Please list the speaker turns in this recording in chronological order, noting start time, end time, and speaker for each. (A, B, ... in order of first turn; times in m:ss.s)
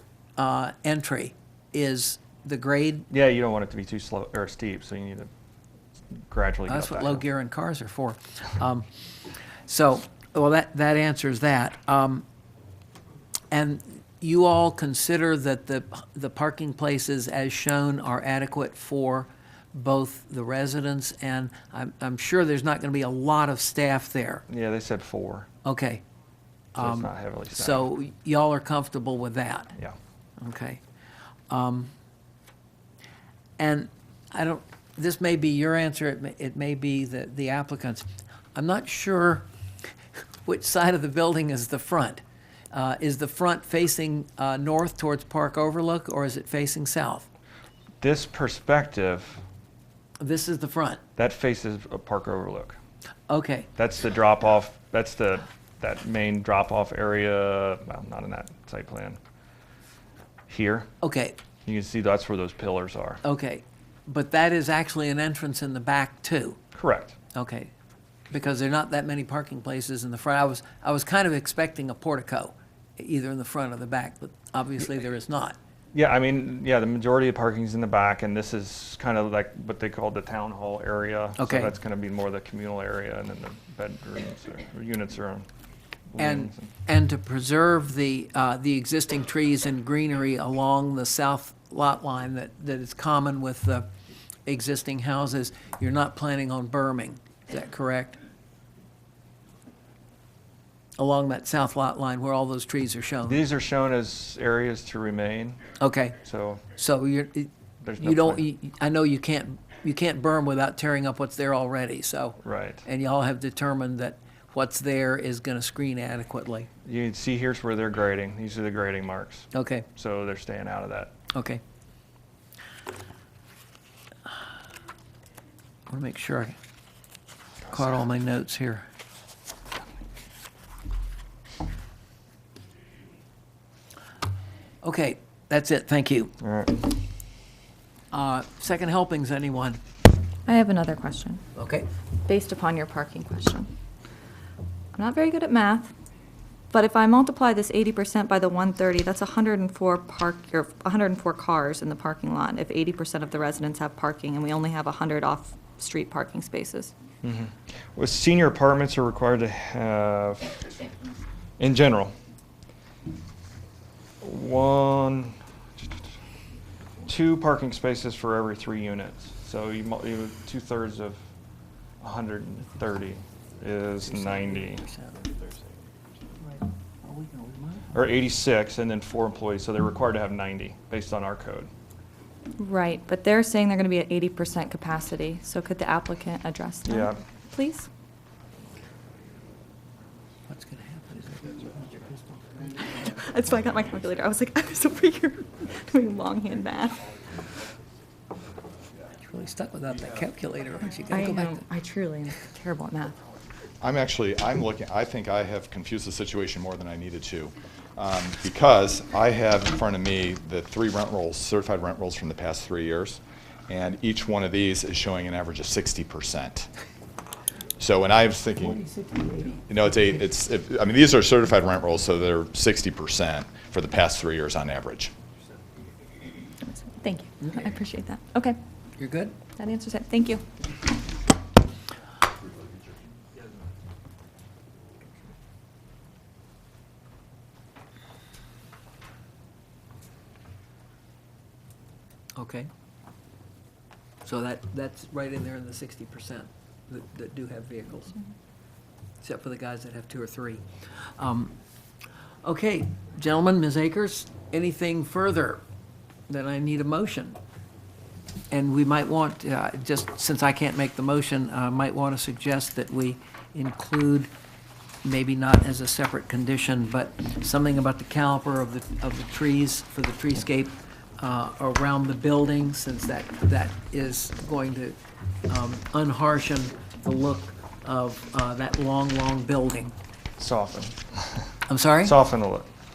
0:00.4-0:03.1 A
0:03.1-0:05.3 B
0:06.3-0:07.2 B
0:06.7-0:08.9 A
0:09.7-0:12.2 A
0:13.5-0:24.4 A
0:24.5-0:25.5 B
0:25.6-0:26.0 A
0:26.7-0:29.7 A
0:26.8-0:27.8 B
0:30.4-0:30.8 A
0:31.5-0:31.9 A
0:33.6-0:39.5 A
0:40.4-0:47.3 A
0:48.0-0:49.4 B
0:50.2-0:51.0 A
0:51.2-0:52.8 B
0:53.3-0:53.7 A
0:53.8-0:59.2 B
1:00.5-1:00.9 B
1:01.0-1:01.4 A
1:01.6-1:03.2 B
1:03.2-1:06.6 A
1:06.8-1:07.2 B
1:07.3-1:07.7 A
1:08.3-1:15.6 A
1:15.9-1:25.5 B
1:21.4-1:21.7 A
1:26.1-1:26.7 B
1:26.2-1:33.9 A
1:34.5-1:38.2 A
1:41.0-1:43.4 A
1:43.3-1:45.6 B
1:45.8-1:46.2 A
1:46.2-1:46.6 B
1:46.7-1:56.7 A
1:47.8-1:48.4 B
1:52.4-1:52.8 B
1:56.8-2:01.1 B
1:59.5-1:59.9 A
2:01.3-2:01.6 A
2:05.9-2:06.6 A
2:07.7-2:08.9 A
2:14.8-2:16.3 A
2:16.4-2:16.9 B
2:18.1-2:19.8 A
2:20.5-2:21.4 C
2:21.6-2:21.9 A
2:22.2-2:23.7 C
2:24.9-2:25.9 C
2:26.7-2:36.9 C
2:37.2-2:40.8 B
2:41.6-2:42.1 B
2:44.2-2:46.1 B
2:47.1-2:51.2 B
2:52.0-2:55.6 B
2:54.0-2:55.2 A
2:56.4-2:58.0 A
2:57.9-3:01.7 B
3:02.6-3:07.9 C
3:06.9-3:07.2 B
3:10.5-3:13.0 A
3:12.9-3:17.1 C
3:19.2-3:21.6 A
3:21.1-3:23.2 C
3:23.8-3:36.7 D
3:37.8-3:38.8 D
3:38.6-3:39.8 A
3:39.7-3:45.1 D
3:46.6-3:48.6 C
3:47.4-3:47.7 A
3:49.0-3:49.3 A
3:49.6-3:50.4 C
4:02.4-4:02.7 A
4:04.2-4:08.2 A
4:09.2-4:11.5 A
4:12.4-4:15.6 A
4:16.3-4:17.4 A
4:18.5-4:24.3 A
4:25.0-4:35.0 A
4:35.5-4:39.9 A
4:40.4-4:41.4 B
4:41.7-4:42.2 A
4:42.0-4:42.7 B